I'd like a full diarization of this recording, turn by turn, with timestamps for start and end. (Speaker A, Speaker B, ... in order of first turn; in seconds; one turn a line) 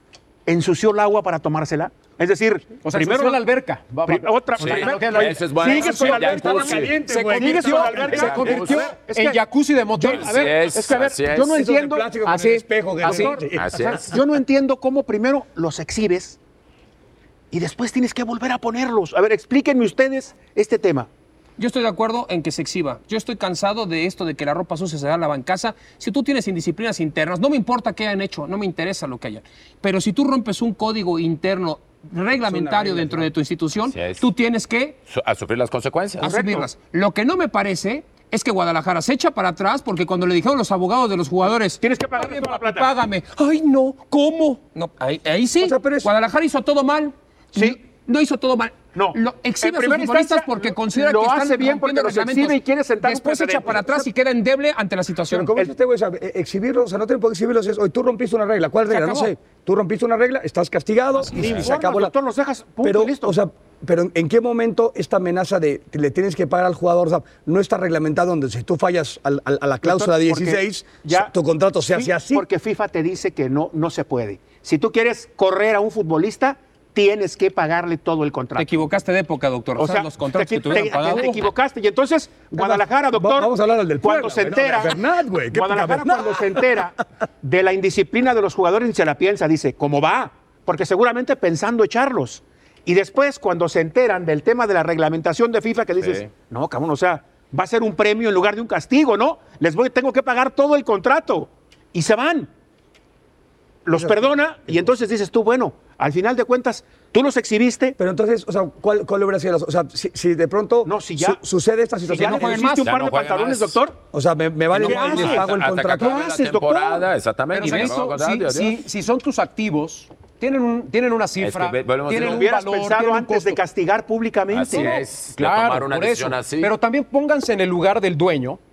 Speaker A: 0.5-3.4
Speaker B: 2.8-6.2
Speaker A: 4.0-9.4
Speaker C: 4.6-7.0
Speaker D: 5.6-8.8
Speaker B: 6.9-10.9
Speaker C: 7.9-8.9
Speaker C: 10.0-11.6
Speaker A: 10.0-12.2
Speaker D: 11.4-14.0
Speaker B: 12.2-13.3
Speaker A: 13.0-16.4
Speaker C: 13.5-14.1
Speaker A: 17.5-21.1
Speaker E: 21.6-35.0
Speaker D: 32.4-33.3
Speaker C: 33.9-34.3
Speaker C: 35.1-36.3
Speaker E: 36.2-55.5
Speaker A: 36.2-36.7
Speaker A: 41.8-42.9
Speaker D: 45.6-46.1
Speaker A: 49.0-53.9
Speaker D: 53.7-54.1
Speaker D: 55.3-62.1
Speaker E: 58.9-59.3
Speaker A: 61.3-63.3
Speaker D: 62.8-72.5
Speaker A: 69.8-71.3
Speaker A: 71.9-78.8
Speaker E: 78.6-81.5
Speaker A: 79.8-85.0
Speaker D: 82.5-86.8
Speaker A: 85.5-102.5
Speaker C: 96.0-96.3
Speaker A: 103.8-108.0
Speaker D: 103.9-104.9
Speaker D: 108.0-112.7
Speaker A: 110.8-111.4
Speaker A: 112.1-114.0
Speaker E: 112.1-112.9
Speaker C: 112.8-113.8
Speaker D: 114.1-116.2
Speaker C: 114.7-118.8
Speaker A: 114.7-117.1
Speaker B: 117.5-123.6
Speaker E: 117.6-118.0
Speaker C: 121.4-122.5
Speaker A: 122.1-125.0
Speaker C: 124.5-126.7
Speaker B: 124.7-128.6